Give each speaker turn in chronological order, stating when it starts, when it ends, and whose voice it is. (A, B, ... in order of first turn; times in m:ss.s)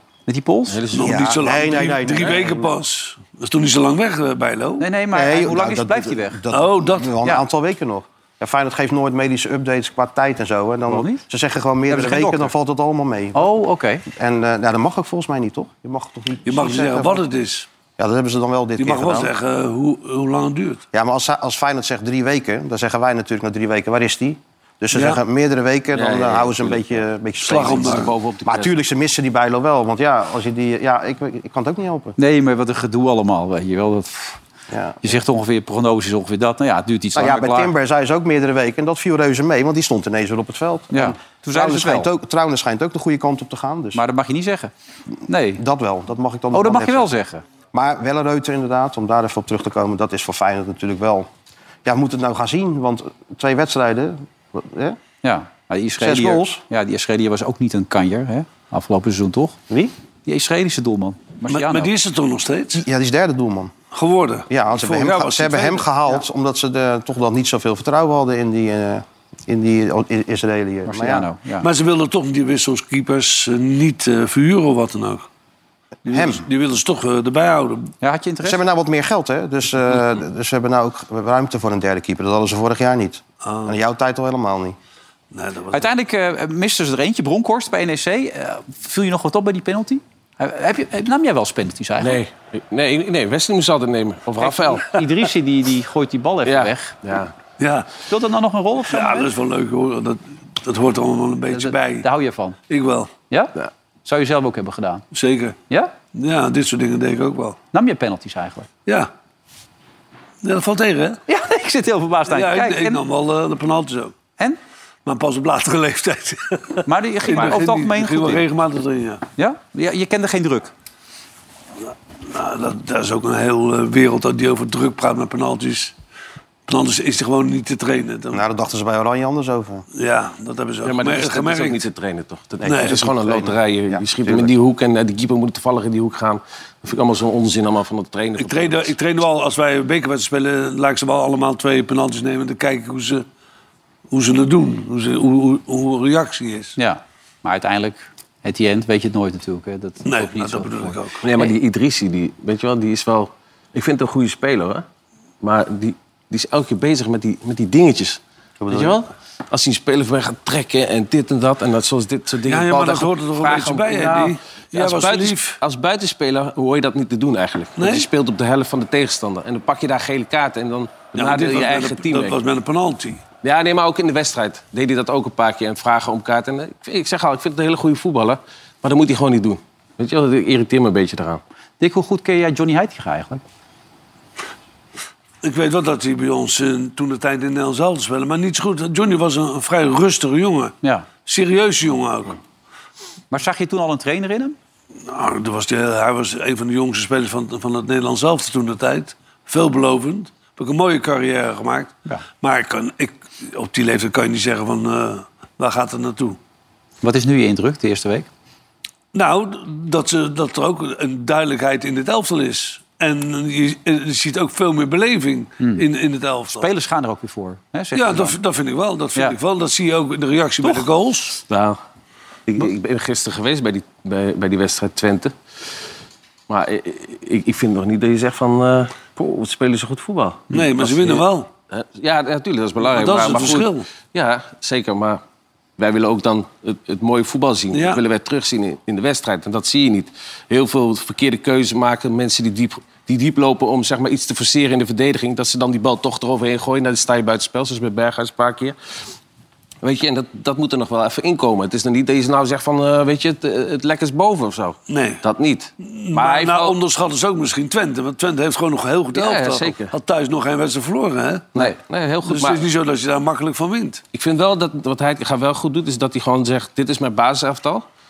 0:00.3-0:00.8 A
0:00.7-0:02.4 B
0:00.9-0:04.9 C
0:01.0-0:02.7 D
0:04.8-0:06.4 A
0:05.1-0:13.5 D
0:06.5-0:07.1 C
0:10.9-0:11.2 A
0:11.9-0:12.5 A
0:13.4-0:14.0 A
0:14.2-0:17.2 D
0:16.5-0:17.7 C
0:18.0-0:19.3 D
0:18.8-0:20.8 C
0:20.9-0:32.2 D
0:24.9-0:25.2 C
0:25.9-0:27.0 B
0:27.4-0:28.1 C
0:27.6-0:28.7 B
0:32.2-0:34.4 A
0:34.7-0:35.0 D
0:35.0-0:37.7 A
0:37.2-0:44.0 D
0:40.9-0:42.1 A
0:43.9-0:44.7 A
0:45.3-0:45.6 A
0:45.6-0:47.1 D
0:46.5-0:47.4 A
0:47.7-0:51.3 D
0:51.8-0:55.0 D
0:55.2-0:59.6 A
0:56.0-0:56.6 D
1:00.3-1:01.9 A
1:01.5-1:02.9 C
1:02.8-1:03.7 D
1:03.9-1:05.9 C
1:04.5-1:11.3 D
1:10.9-1:11.7 A
1:11.6-1:15.3 C
1:16.0-1:17.9 C
1:16.1-1:16.4 D
1:18.0-1:18.6 A
1:18.4-1:24.8 D
1:23.4-1:23.7 C
1:25.3-1:25.9 C
1:25.7-1:32.2 A
1:32.0-1:34.9 B
1:34.4-1:37.0 A
1:36.4-1:37.3 B
1:37.6-1:37.9 C
1:38.1-1:39.3 A
1:38.9-1:42.1 C
1:41.5-1:42.6 A
1:42.7-1:43.1 C
1:43.3-1:45.0 A
1:45.1-1:45.6 C
1:46.1-1:47.6 C
1:47.7-1:48.7 A
1:50.4-1:51.2 C
1:51.3-1:53.0 A
1:52.3-1:54.1 C
1:55.1-1:59.2 C
1:56.9-1:58.4 A
1:59.4-2:00.7 A
2:02.3-2:05.9 C
2:06.7-2:08.4 C
2:08.3-2:09.8 D
2:10.0-2:11.8 C
2:10.8-2:18.9 B
2:12.6-2:14.5 D
2:12.7-2:13.0 C
2:18.4-2:23.2 C
2:24.1-2:26.8 C
2:26.8-2:31.5 A
2:30.0-2:31.2 C
2:31.2-2:34.8 B
2:35.4-2:52.4 B
2:38.6-2:39.0 D
2:42.5-2:45.6 C
2:47.8-2:48.1 C
2:51.2-2:53.2 C
2:53.4-3:01.4 B
3:01.8-3:03.4 A
3:05.4-3:10.8 C
3:11.3-3:12.4 C
3:13.3-3:14.6 A
3:15.0-3:26.4 C
3:27.0-3:28.3 A
3:29.1-3:36.7 C
3:36.5-3:38.4 A
3:38.0-3:41.4 C
3:41.5-3:41.8 B
3:42.5-3:45.3 B
3:46.5-3:55.2 B
3:50.5-3:51.5 C
3:52.8-3:53.9 C
3:55.8-4:08.8 B
3:57.7-3:58.0 C
4:09.8-4:16.8 B
4:14.9-4:15.2 C
4:15.8-4:21.5 C
4:19.1-4:19.9 B
4:21.5-4:22.6 B
4:22.2-4:24.0 C
4:24.1-4:27.8 B